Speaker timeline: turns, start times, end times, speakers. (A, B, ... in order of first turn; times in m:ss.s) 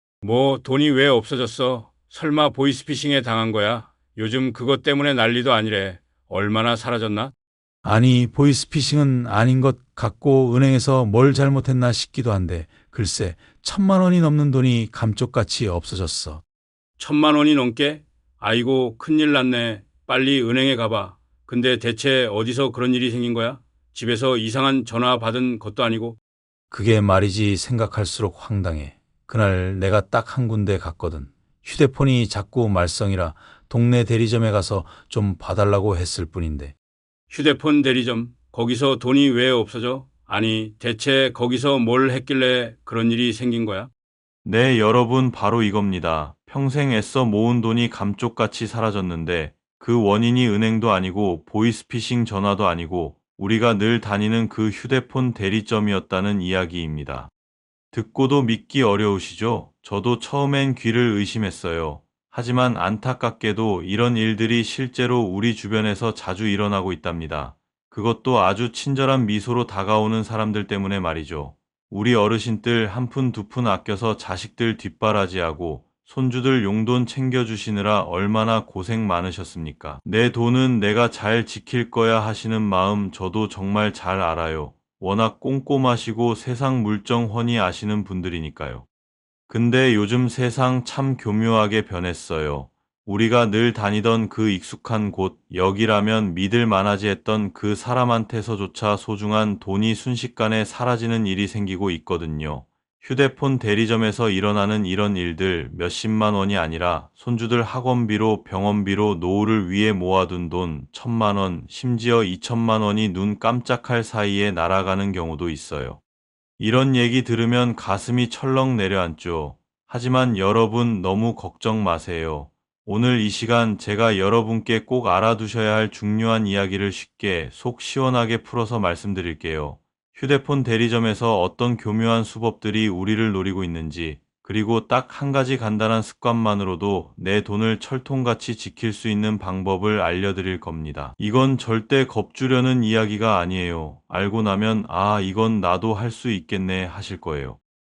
0:00.2-0:07.3 A
0:07.8-0:16.4 B
0:17.0-0:26.2 A
0:26.7-0:36.8 B
0:37.3-0:43.9 A
0:44.4-0:57.3 C
0:57.9-1:28.9 C
1:29.5-1:56.0 C
1:56.6-2:27.6 C